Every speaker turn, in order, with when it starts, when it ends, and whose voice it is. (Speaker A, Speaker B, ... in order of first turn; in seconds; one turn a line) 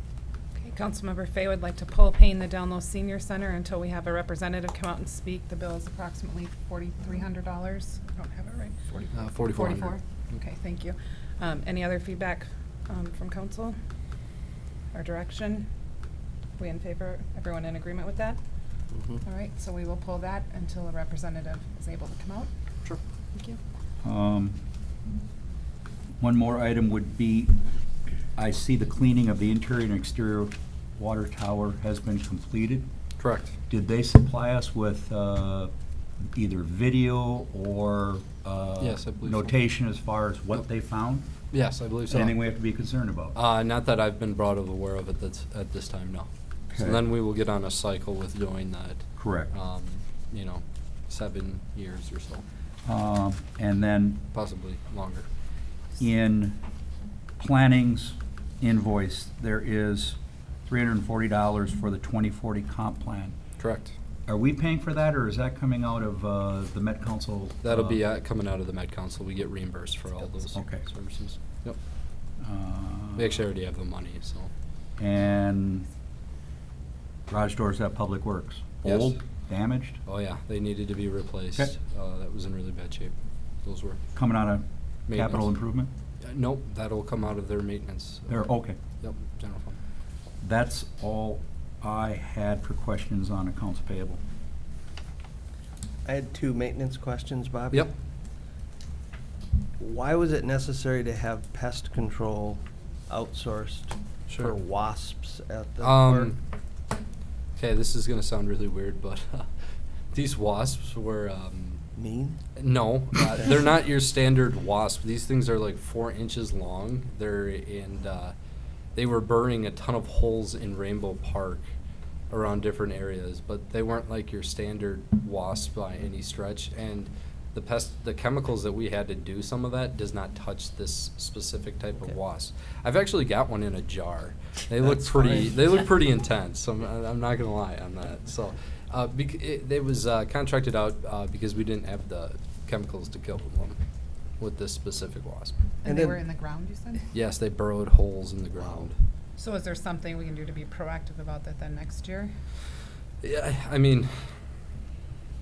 Speaker A: 0.6-13.8
Speaker B: 9.1-9.9
Speaker A: 14.9-15.7
Speaker A: 16.6-18.4
Speaker A: 19.2-22.5
Speaker C: 24.0-24.6
Speaker C: 26.2-27.5
Speaker C: 28.4-32.9
Speaker B: 33.2-33.5
Speaker C: 33.7-35.7
Speaker C: 36.3-41.3
Speaker B: 38.8-39.5
Speaker B: 41.5-42.4
Speaker C: 42.1-43.3
Speaker B: 43.3-52.4
Speaker C: 46.7-47.0
Speaker C: 49.2-49.5
Speaker C: 52.9-54.2
Speaker B: 54.3-55.3
Speaker C: 56.0-56.6
Speaker C: 57.4-63.4
Speaker B: 63.6-63.9
Speaker C: 64.3-68.0
Speaker B: 67.6-71.8
Speaker C: 70.5-70.8
Speaker C: 72.4-73.3
Speaker B: 73.2-74.5
Speaker C: 75.0-75.9
Speaker C: 77.3-80.0
Speaker B: 78.8-79.2
Speaker B: 80.0-84.0
Speaker C: 84.1-85.9
Speaker B: 85.1-85.5
Speaker B: 86.2-88.4
Speaker C: 88.3-88.8
Speaker B: 89.0-89.8
Speaker C: 90.4-94.2
Speaker D: 96.0-97.9
Speaker D: 99.8-106.3
Speaker B: 105.8-106.4
Speaker B: 107.5-109.5
Speaker B: 110.1-111.8
Speaker D: 112.0-112.4
Speaker B: 112.5-118.3
Speaker B: 118.9-121.6
Speaker B: 122.3-143.8
Speaker D: 134.9-135.4
Speaker B: 144.4-145.6
Speaker A: 145.8-147.1
Speaker D: 145.8-146.2
Speaker B: 147.1-148.9
Speaker A: 149.4-152.3
Speaker B: 153.2-154.1